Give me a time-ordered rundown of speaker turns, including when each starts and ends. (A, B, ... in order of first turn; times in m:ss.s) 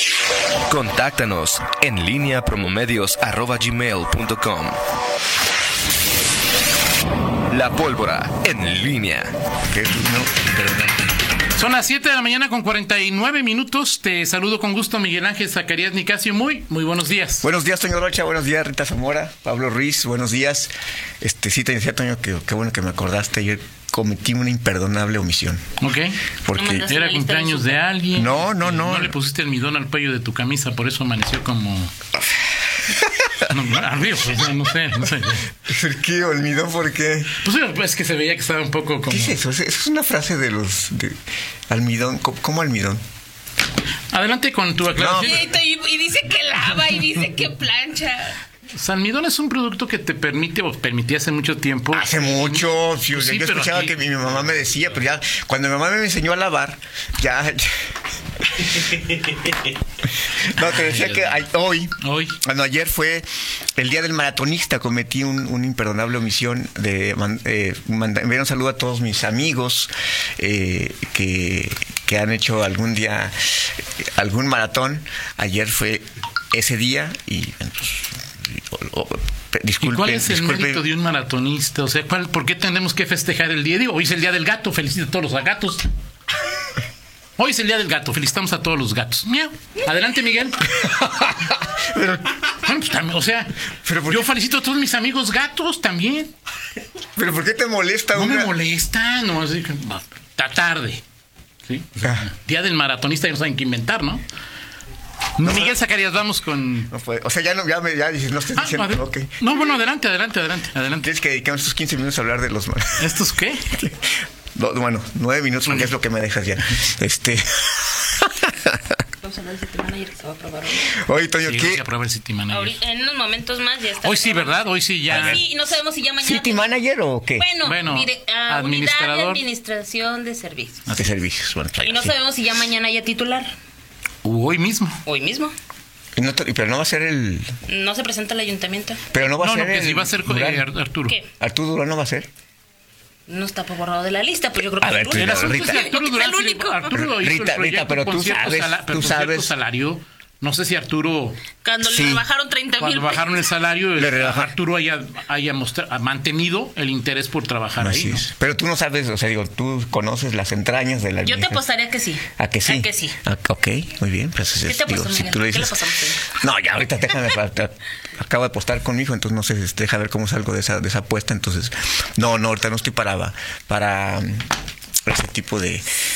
0:00.7-0:04.8 A
0:07.5-0:09.3 A
0:09.7-0:11.0 B
0:11.6-0:17.5 C
0:17.4-0:25.6 B
0:25.8-0:26.2 C
0:26.4-0:26.9 B
0:26.5-0:27.8 D
0:26.9-0:31.9 C
0:28.1-0:29.1 B
0:32.9-0:33.4 B
0:33.5-0:35.5 C
0:35.6-0:37.4 B
0:37.4-0:39.4 C
0:39.0-0:41.2 B
0:41.7-0:43.0 B
0:44.1-0:45.4 C
0:44.9-0:45.4 B
0:45.2-0:48.4 D
0:48.7-0:55.0 C
0:51.9-0:57.7 B
0:58.4-1:03.2 B
1:00.6-1:01.4 C
1:02.0-1:02.4 C
1:03.8-1:20.8 B
1:19.8-1:25.8 C
1:27.4-1:30.7 C
1:30.6-1:32.6 B
1:32.6-1:36.3 C
1:33.8-1:34.3 B
1:37.2-1:38.5 B
1:38.1-1:41.0 C
1:41.7-1:44.2 C
1:42.0-1:42.3 B
1:45.4-1:46.9 C
1:45.4-1:45.8 B
1:46.9-1:49.3 B
1:48.5-1:51.1 C
1:51.0-1:53.1 B
1:53.0-1:53.7 C
1:53.7-1:58.8 B
1:55.6-1:55.9 C
1:59.2-2:01.0 D
2:00.9-2:01.8 B
2:01.4-2:02.8 C
2:02.5-2:06.6 D
2:04.0-2:05.4 C
2:05.1-2:05.4 B
2:06.2-2:07.5 B
2:07.4-2:10.8 D
2:07.6-2:09.4 C
2:10.8-2:11.1 C
2:10.9-2:12.2 B
2:11.8-2:13.5 D
2:14.2-2:15.0 C
2:15.0-2:15.5 D
2:16.2-2:17.5 B
2:17.7-2:19.0 D
2:19.1-2:20.7 B
2:19.4-2:21.2 C
2:21.4-2:22.3 B
2:23.3-2:27.0 D
2:24.8-2:25.8 B
2:25.1-2:31.4 C
2:26.9-2:29.5 B
2:31.6-2:33.5 D
2:31.8-2:32.2 B
2:32.8-2:38.2 C
2:34.0-2:34.5 B
2:37.8-2:41.6 B
2:41.2-2:43.2 D
2:42.4-2:54.5 B
2:44.6-2:46.4 D
2:55.0-2:55.9 B